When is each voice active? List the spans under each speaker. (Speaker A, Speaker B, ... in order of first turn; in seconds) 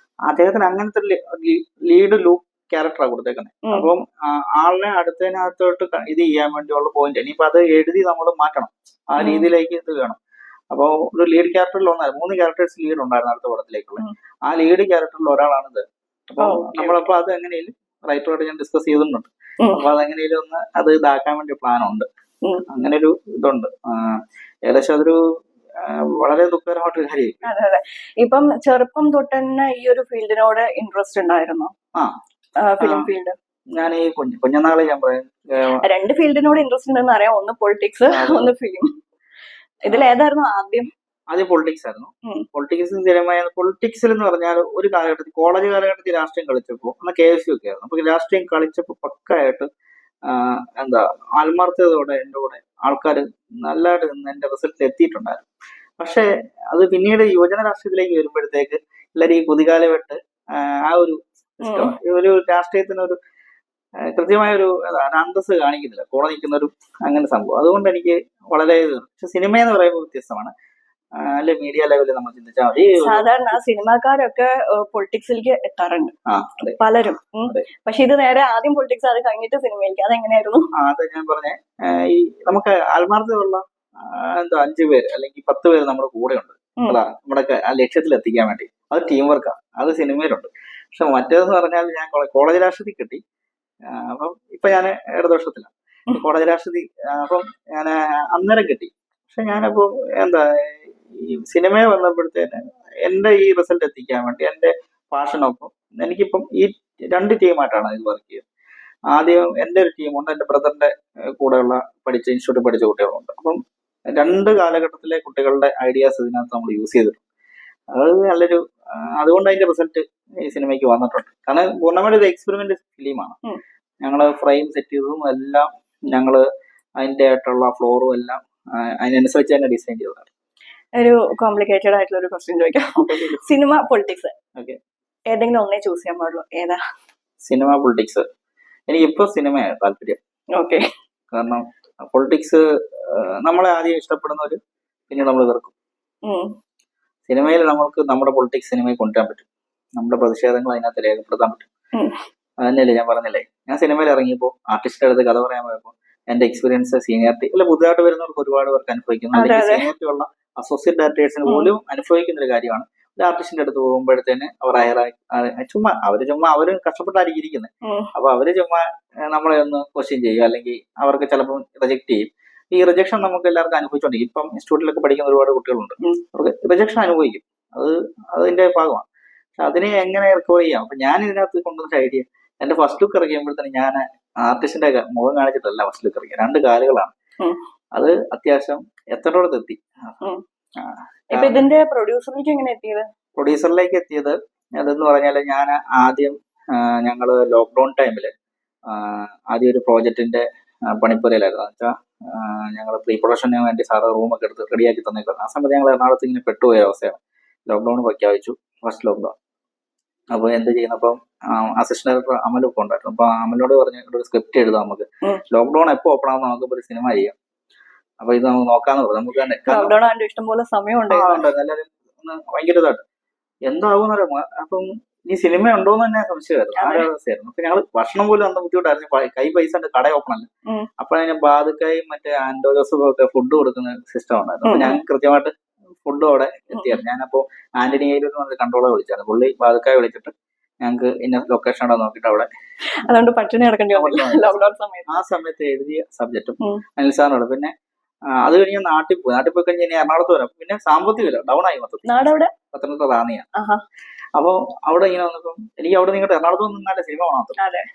Speaker A: 0.3-10.2, 10.7-22.1, 22.7-25.2, 25.8-27.5, 32.8-33.1, 33.8-35.8, 38.1-38.5, 41.3-49.7, 50.3-55.5, 56.0-63.2, 64.2-70.5, 71.2-73.3, 76.3-76.8, 80.8-93.2, 93.9-108.5, 109.1-113.6, 114.1-117.2, 117.9-123.4, 124.0-126.4, 127.0-130.3, 133.0-133.4, 137.4-138.2, 138.9-140.2, 141.3-144.6, 145.1-145.7, 147.3-149.5, 150.0-151.7, 152.6-179.1, 179.6-187.1, 187.9-189.8, 190.8-191.7, 193.4-198.3, 198.9-209.3, 210.3-217.3, 218.2-219.9, 221.1-223.0, 223.7-230.5, 231.0-235.5, 236.1-240.3, 240.8-242.5, 243.9-244.6, 245.1-247.7, 248.4-253.5, 254.4-257.6
Speaker B: 9.2-9.5, 16.4-17.1, 27.4-31.7, 32.6-33.4, 35.8-38.9, 39.9-40.9, 61.6-61.9, 73.0-80.7, 131.0-134.3, 135.3-136.8, 140.6-140.8, 146.2-146.5, 159.3-159.9, 161.5-161.7, 167.8-168.1, 191.3-193.1, 219.7-221.4, 226.8-227.1, 234.6-235.0, 243.1-245.2, 252.1-252.5, 257.6-257.9